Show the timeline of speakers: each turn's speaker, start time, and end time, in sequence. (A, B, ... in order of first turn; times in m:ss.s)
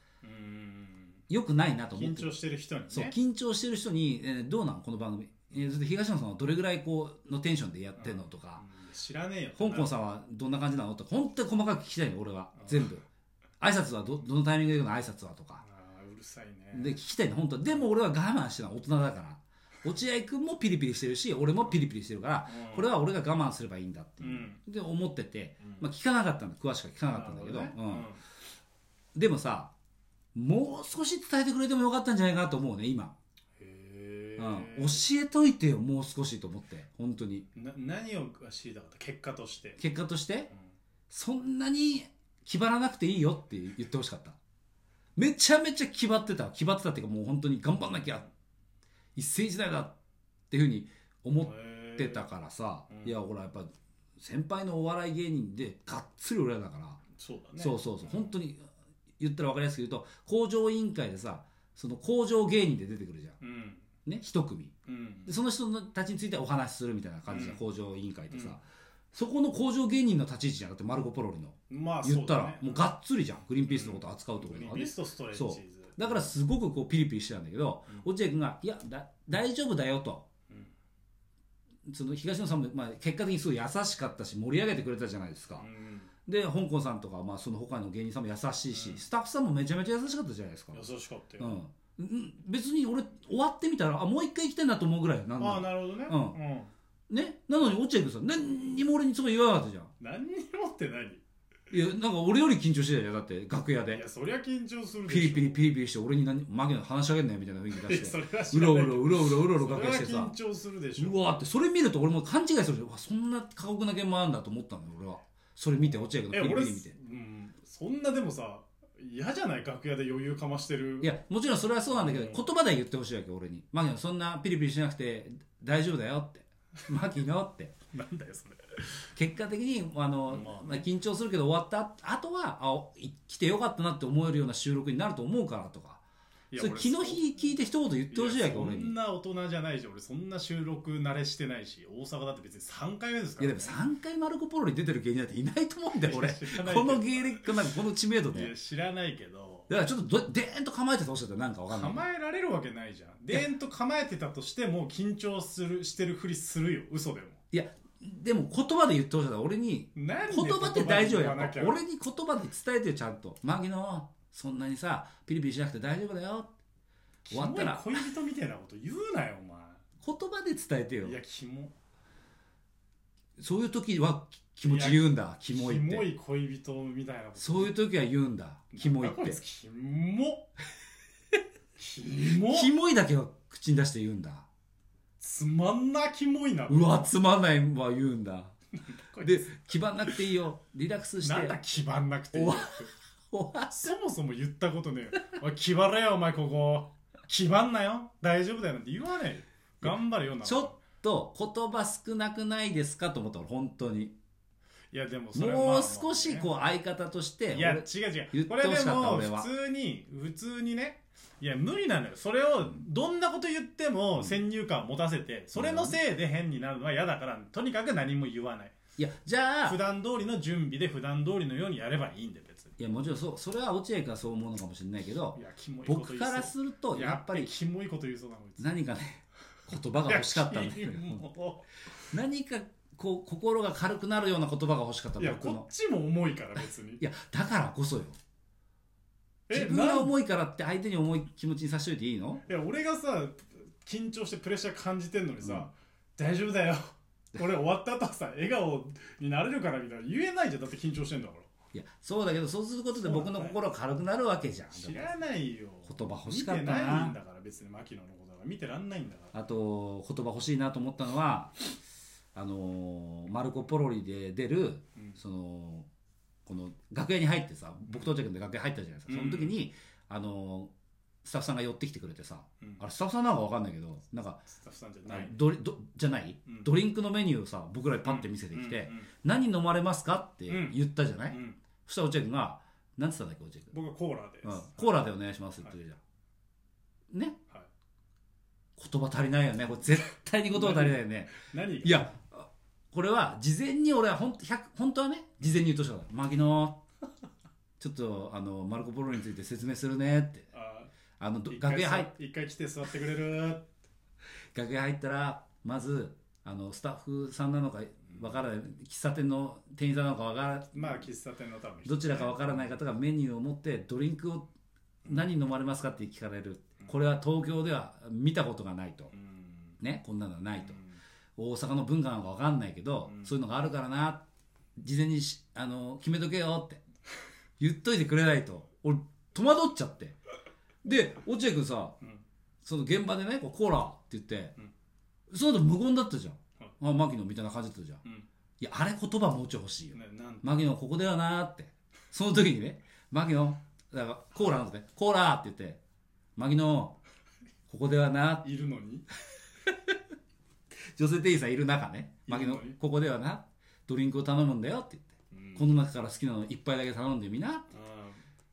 0:00.2-0:01.2 A
0:01.3-0:02.4 B
0:01.9-0:03.1 A
0:02.9-0:08.6 B
0:08.0-0:09.9 A
0:09.6-0:13.0 B
0:12.5-0:12.9 A
0:13.6-0:15.6 B
0:15.6-0:17.0 A
0:16.7-0:28.1 B
0:22.5-0:22.9 A
0:24.2-0:24.6 A
0:27.1-0:28.2 A
0:29.1-0:29.7 B
0:30.3-0:33.1 B
0:33.6-0:35.1 A
0:34.4-0:37.5 B
0:37.5-0:39.8 A
0:39.8-0:40.5 B
0:41.1-0:44.4 B
0:45.2-0:48.2 B
0:49.2-0:50.0 B
0:50.5-0:57.0 B
0:51.4-0:52.3 A
0:52.9-0:53.2 A
0:57.1-0:58.3 A
0:57.6-0:58.7 B
0:59.2-1:03.4 B
1:03.4-1:03.9 A
1:04.0-1:04.7 B
1:04.8-1:05.4 A
1:05.2-1:08.6 B
1:07.3-1:07.6 A
1:08.3-1:08.6 A
1:09.1-1:20.2 B
1:11.7-1:12.9 A
1:13.6-1:16.3 A
1:21.8-1:25.7 B
1:25.6-1:26.1 A
1:26.3-1:30.8 B
1:28.7-1:29.0 A
1:30.7-1:31.6 A
1:31.4-1:36.4 B
1:35.4-1:36.7 A
1:37.1-1:39.9 B
1:40.0-1:41.2 A
1:41.7-1:44.0 B
1:43.9-1:45.6 A
1:45.1-1:50.3 B
1:47.7-1:51.3 A
1:51.0-1:56.9 B
1:55.8-2:01.1 A
2:01.0-2:07.7 B
2:01.9-2:02.4 A
2:07.9-2:08.9 A
2:09.2-2:16.0 B
2:10.3-2:10.9 A
2:16.5-2:17.5 A
2:16.6-2:18.9 B
2:18.1-2:23.8 A
2:23.4-2:28.5 B
2:26.0-2:27.6 A
2:28.3-2:29.7 A
2:29.7-2:32.0 B
2:31.7-2:37.4 A
2:37.5-2:46.5 B
2:39.9-2:41.8 A
2:47.3-2:49.8 A
2:47.3-2:48.0 B
2:50.0-2:51.2 B
2:51.0-2:51.7 A
2:53.4-2:56.1 B
2:54.6-2:57.8 A
2:57.4-2:59.4 B
2:58.7-3:00.5 A
3:01.8-3:02.7 A
3:02.2-3:04.5 B
3:05.2-3:07.1 A
3:06.7-3:08.5 B
3:08.9-3:10.1 A
3:09.2-3:11.6 B
3:11.2-3:12.9 A
3:12.3-3:13.8 B
3:13.7-3:20.8 A
3:19.8-3:24.1 B
3:24.9-3:26.5 A
3:25.3-3:29.5 B
3:27.5-3:38.8 A
3:35.5-3:36.0 B
3:39.0-3:39.8 B
3:39.6-3:42.8 A
3:42.8-3:47.5 B
3:45.3-3:48.7 A
3:48.6-3:51.2 B
3:50.0-3:51.7 A
3:52.1-3:55.7 B
3:55.2-3:57.0 A
3:57.0-3:58.2 B
3:59.5-4:00.1 A
3:59.5-4:02.4 B
4:02.4-4:11.5 A
4:11.7-4:15.1 B
4:12.9-4:13.6 A
4:14.7-4:19.3 A
4:15.8-4:17.2 B
4:19.3-4:21.6 B
4:22.3-4:25.9 B
4:26.4-4:30.7 B
4:29.1-4:29.6 A
4:31.2-4:34.4 B
4:34.5-4:35.4 A
4:35.0-4:43.7 B
4:36.4-4:36.7 A
4:38.0-4:39.1 A
4:40.5-4:40.8 A
4:41.3-4:41.6 A
4:43.7-4:45.0 A
4:44.4-4:46.0 B
4:47.1-4:47.4 B
4:48.8-4:56.8 B
4:50.5-4:52.1 A
4:57.8-5:00.5 B
5:00.5-5:00.9 A
5:01.2-5:02.1 B
5:01.5-5:03.7 A
5:04.5-5:11.0 B
5:10.7-5:12.7 A
5:11.8-5:14.5 B
5:15.0-5:15.3 A
5:15.1-5:19.1 B
5:19.1-5:19.8 A
5:19.8-5:20.8 B
5:20.6-5:21.0 A
5:21.4-5:24.2 B
5:23.0-5:23.4 A
5:24.8-5:26.8 B
5:27.6-5:30.2 B
5:30.8-5:32.0 B
5:32.6-5:34.5 B
5:35.3-5:38.0 B
5:38.6-5:45.8 B
5:39.9-5:40.5 A
5:46.4-5:47.0 B
5:47.7-5:48.5 B
5:48.4-5:49.1 A
5:49.7-5:49.9 B
5:50.9-5:57.7 B
5:52.3-5:52.8 A
5:55.3-5:55.7 A
5:57.7-5:58.2 A